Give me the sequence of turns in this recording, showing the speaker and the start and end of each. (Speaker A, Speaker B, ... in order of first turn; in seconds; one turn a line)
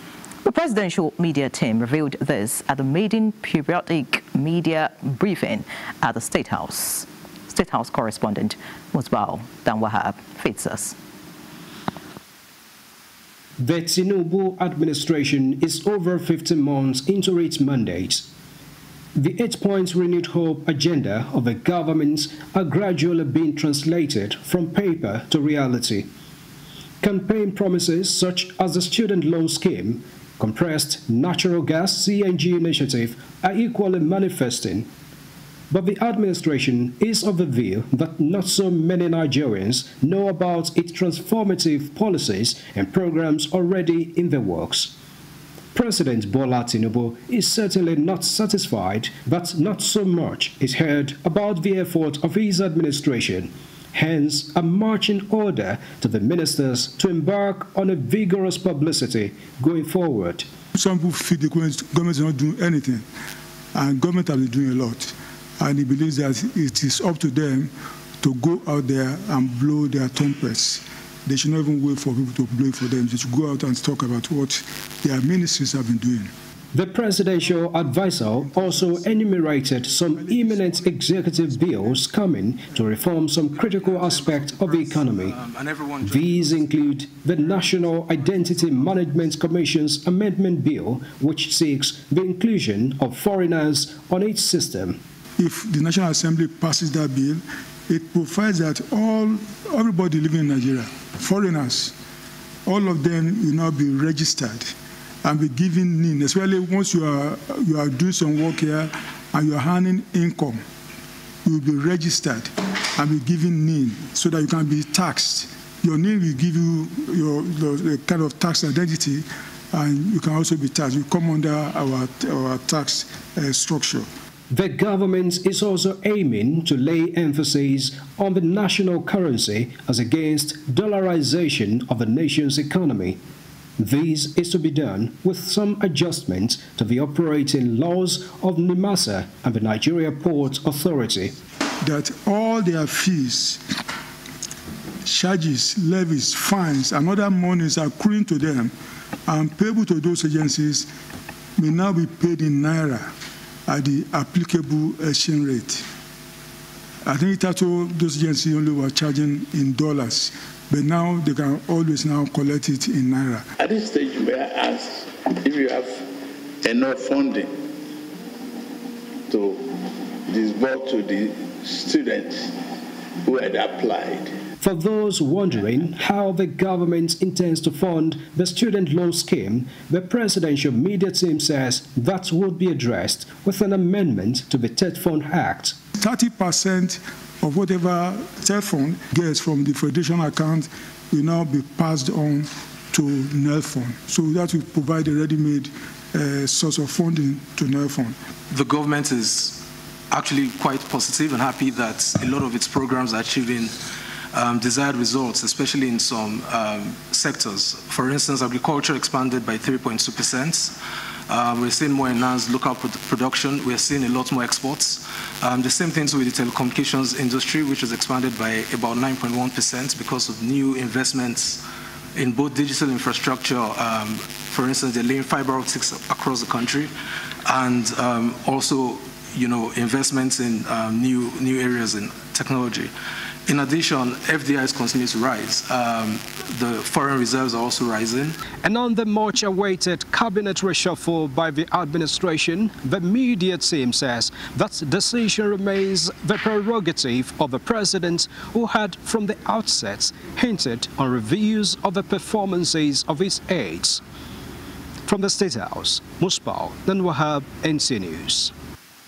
Speaker A: 0.4-10.9
Speaker B: 13.6-18.3
Speaker B: 19.1-26.1
Speaker B: 27.0-34.9
Speaker B: 35.7-45.0
Speaker B: 45.8-60.5
Speaker C: 60.8-63.1
Speaker C: 63.7-76.3
Speaker B: 76.7-85.4
Speaker C: 77.8-82.1
Speaker D: 83.5-89.2
Speaker B: 86.0-95.0
Speaker C: 95.4-102.0
Speaker C: 102.7-104.7
Speaker C: 105.2-110.6
Speaker C: 111.5-124.1
Speaker B: 124.5-133.2
Speaker B: 133.8-141.3
Speaker C: 141.8-143.6
Speaker C: 145.0-148.7
Speaker C: 149.3-150.9
Speaker C: 151.6-153.1
Speaker C: 153.7-155.8
Speaker C: 157.1-163.5
Speaker E: 163.6-166.0
Speaker E: 166.6-167.5
Speaker E: 169.3-172.6
Speaker E: 173.2-174.3
Speaker B: 174.6-185.8
Speaker C: 186.0-198.2
Speaker D: 198.5-203.8
Speaker D: 204.3-210.8
Speaker D: 211.3-221.6
Speaker D: 222.2-226.9
Speaker D: 227.5-232.9
Speaker D: 233.5-238.4
Speaker B: 238.6-254.0
Speaker B: 255.1-258.5